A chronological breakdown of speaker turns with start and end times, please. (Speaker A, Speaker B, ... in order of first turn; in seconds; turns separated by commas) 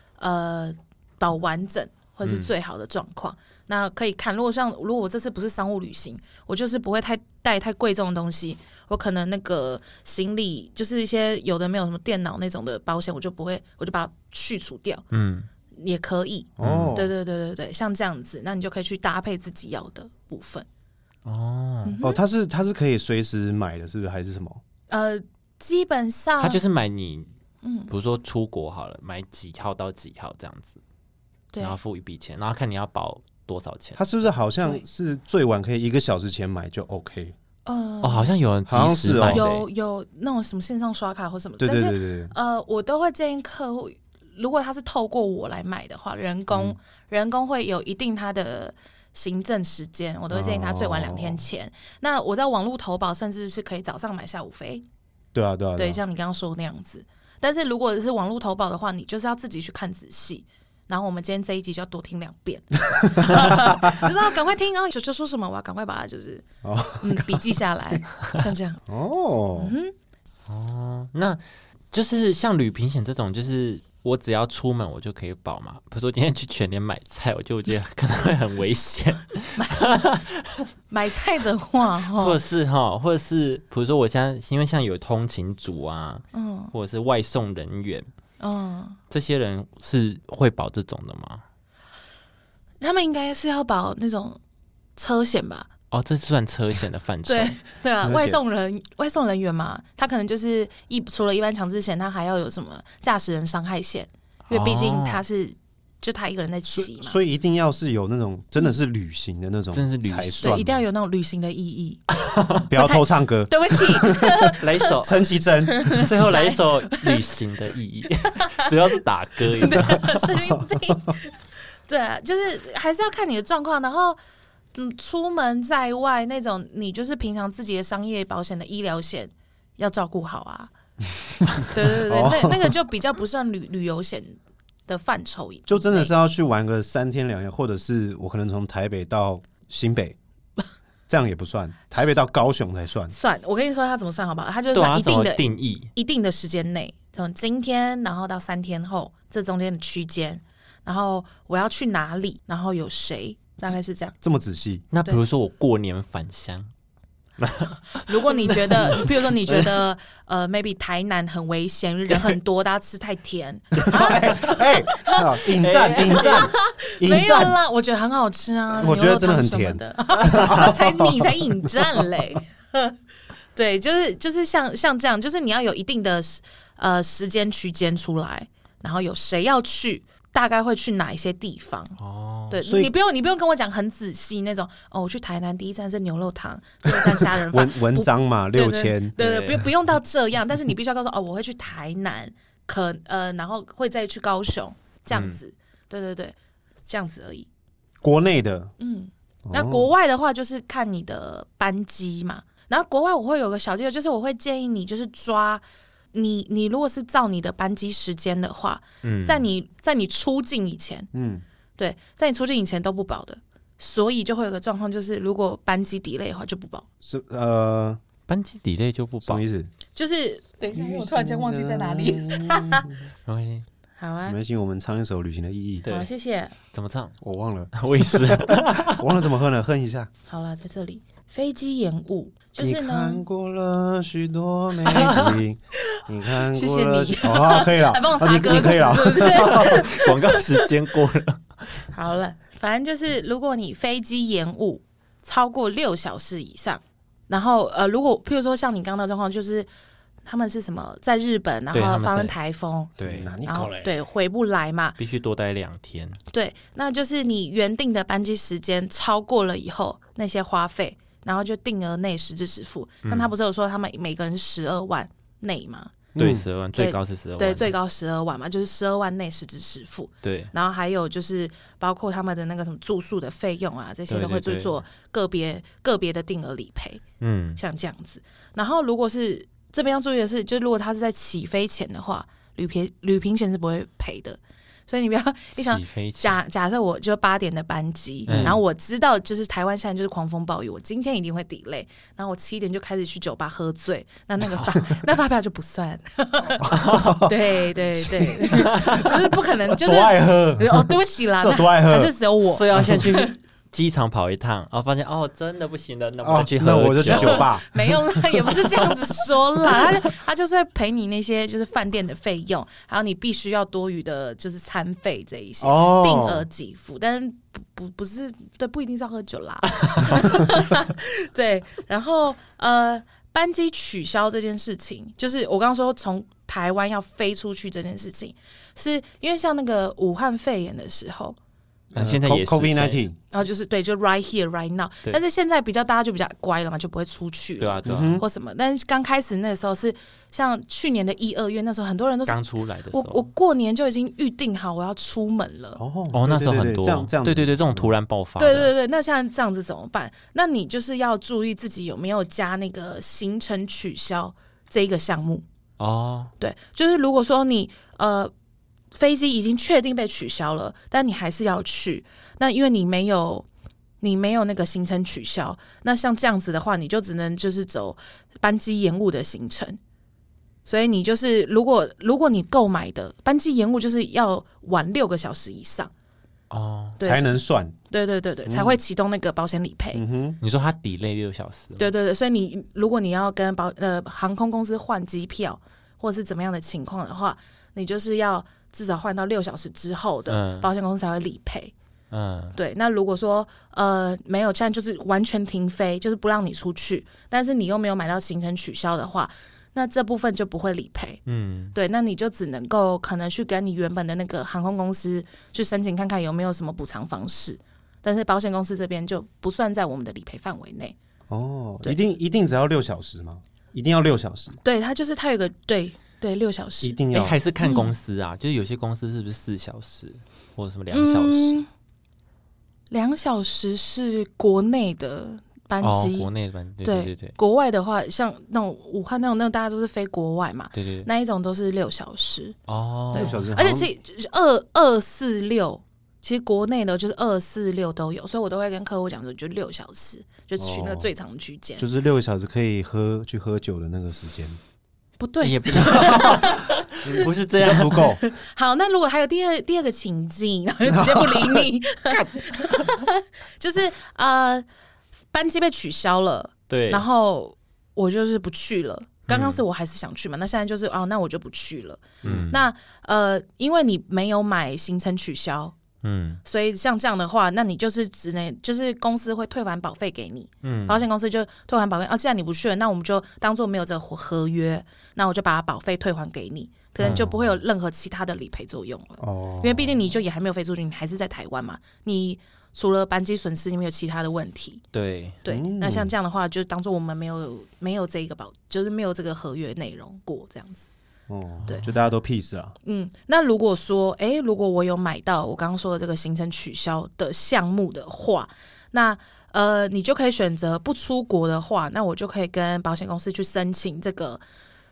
Speaker A: 0.2-15.0, Speaker B: 2.2-2.5, Speaker B: 15.1-15.5, Speaker A: 15.7-20.6, Speaker C: 16.6-17.1, Speaker B: 16.6-16.9, Speaker B: 21.2-22.0, Speaker A: 21.8-22.2, Speaker C: 22.0-24.6, Speaker A: 24.9-26.6, Speaker B: 26.4-27.3, Speaker A: 27.6-27.9, Speaker B: 27.9-30.8, Speaker B: 31.6-34.0, Speaker C: 33.9-37.3, Speaker A: 37.6-38.3, Speaker B: 38.0-39.7, Speaker C: 38.7-39.4, Speaker A: 39.2-54.8, Speaker C: 41.6-42.3, Speaker C: 46.5-46.8, Speaker C: 50.3-51.4, Speaker C: 55.3-56.0, Speaker A: 55.8-66.4, Speaker C: 63.1-64.0, Speaker C: 66.6-67.6, Speaker A: 67.0-68.8, Speaker C: 68.9-69.8, Speaker A: 69.5-69.9, Speaker B: 70.5-71.4, Speaker B: 71.9-80.6, Speaker A: 79.6-80.0, Speaker A: 80.9-82.4, Speaker B: 82.1-88.1, Speaker A: 86.3-86.7, Speaker A: 88.4-89.0, Speaker B: 89.1-91.4, Speaker A: 92.8-94.4, Speaker A: 95.0-95.7, Speaker B: 95.9-97.6, Speaker A: 97.2-107.2, Speaker C: 98.0-98.4, Speaker B: 104.5-105.2, Speaker C: 106.7-110.8, Speaker B: 109.7-110.6, Speaker A: 110.4-112.0, Speaker B: 112.2-112.6, Speaker C: 112.7-116.0, Speaker A: 112.8-114.9, Speaker B: 114.5-115.3, Speaker A: 115.7-117.2, Speaker B: 115.8-120.2, Speaker A: 118.3-118.7, Speaker A: 119.6-121.3, Speaker C: 119.8-120.9, Speaker A: 121.9-124.2, Speaker A: 124.7-130.7, Speaker C: 131.5-132.8, Speaker A: 131.6-136.1, Speaker C: 135.7-140.2, Speaker C: 141.1-143.1, Speaker A: 143.1-154.2, Speaker B: 144.7-145.9, Speaker C: 154.2-154.8, Speaker B: 154.9-156.7, Speaker B: 157.4-159.6, Speaker A: 158.0-164.4, Speaker B: 163.8-166.5, Speaker C: 163.8-167.6, Speaker A: 166.1-172.9, Speaker C: 168.8-172.1, Speaker B: 170.3-170.6, Speaker A: 173.5-182.0, Speaker B: 182.0-182.6, Speaker A: 182.5-196.3, Speaker C: 182.6-182.9, Speaker C: 186.9-189.2, Speaker B: 189.2-189.7, Speaker B: 195.1-195.4, Speaker A: 196.9-197.5, Speaker C: 198.0-198.7, Speaker A: 198.8-211.1, Speaker C: 199.5-199.9, Speaker B: 209.0-209.5, Speaker C: 211.1-211.4, Speaker A: 211.8-216.8, Speaker C: 217.0-218.0, Speaker B: 218.3-219.4, Speaker C: 219.2-219.7, Speaker A: 219.9-222.9, Speaker C: 220.7-223.0, Speaker B: 223.2-223.7, Speaker A: 224.0-224.4, Speaker C: 224.2-225.8, Speaker B: 225.8-226.1, Speaker A: 225.9-226.5, Speaker B: 226.7-227.2, Speaker C: 227.2-230.1, Speaker B: 227.8-229.1, Speaker A: 230.3-233.2, Speaker C: 232.6-239.9, Speaker B: 234.9-235.4, Speaker A: 236.5-240.6, Speaker B: 239.1-241.9, Speaker A: 241.9-249.7, Speaker A: 250.2-255.0, Speaker B: 251.7-252.3, Speaker C: 253.0-253.9, Speaker B: 253.0-253.3, Speaker B: 255.0-256.2, Speaker A: 256.3-266.0, Speaker B: 263.1-263.3, Speaker C: 266.1-266.4, Speaker B: 266.2-267.7, Speaker A: 266.8-277.0, Speaker B: 270.2-270.5, Speaker B: 274.1-274.8, Speaker B: 277.2-277.6, Speaker A: 277.6-303.3, Speaker B: 285.6-286.4, Speaker B: 288.3-288.6, Speaker C: 288.3-288.6, Speaker C: 296.6-299.1, Speaker B: 296.7-297.1, Speaker B: 298.6-299.1, Speaker C: 299.7-302.1, Speaker B: 302.5-307.5, Speaker C: 302.8-303.1, Speaker C: 306.2-308.0, Speaker A: 307.1-331.4, Speaker B: 308.5-308.9, Speaker C: 315.6-316.5, Speaker B: 319.9-320.2, Speaker C: 331.9-333.2, Speaker B: 331.9-333.0, Speaker A: 333.3-342.4, Speaker B: 337.6-338.2, Speaker C: 337.8-338.2, Speaker B: 342.3-343.3, Speaker A: 342.9-345.8, Speaker C: 345.8-347.9, Speaker B: 346.1-348.7, Speaker A: 348.4-355.4, Speaker B: 355.8-356.3, Speaker A: 356.4-358.3, Speaker A: 358.9-363.5, Speaker A: 364.0-369.8, Speaker A: 370.6-375.9, Speaker B: 376.5-377.0, Speaker A: 377.0-380.0, Speaker C: 377.0-377.8, Speaker C: 378.4-378.8, Speaker C: 379.9-380.4, Speaker B: 380.4-381.9, Speaker A: 381.8-391.7, Speaker B: 390.3-390.7, Speaker B: 392.1-392.6, Speaker A: 392.5-401.2, Speaker B: 401.2-401.7, Speaker A: 401.7-410.9, Speaker C: 411.3-414.6, Speaker A: 414.6-417.0, Speaker C: 416.8-417.4, Speaker B: 417.1-421.6, Speaker A: 417.6-417.9, Speaker A: 420.9-421.7, Speaker A: 422.9-426.3, Speaker B: 425.8-427.4, Speaker A: 426.8-432.5, Speaker B: 430.7-431.1, Speaker B: 432.7-433.4, Speaker A: 433.1-441.9, Speaker C: 433.1-433.9, Speaker C: 440.6-441.1, Speaker C: 441.8-444.6, Speaker A: 445.2-447.3, Speaker B: 445.4-448.1, Speaker C: 445.7-448.2, Speaker A: 448.2-454.6, Speaker C: 450.9-451.7, Speaker A: 455.3-465.8, Speaker B: 456.7-457.0, Speaker B: 459.3-459.6, Speaker C: 462.2-462.5, Speaker B: 462.2-462.6, Speaker B: 466.0-466.4, Speaker A: 466.4-484.8, Speaker B: 470.6-471.0, Speaker C: 477.0-477.3, Speaker B: 477.0-477.3, Speaker C: 479.2-480.0, Speaker B: 484.9-485.4, Speaker A: 485.4-490.9, Speaker C: 485.5-486.1, Speaker C: 491.3-492.8, Speaker B: 491.6-491.9, Speaker A: 492.8-504.4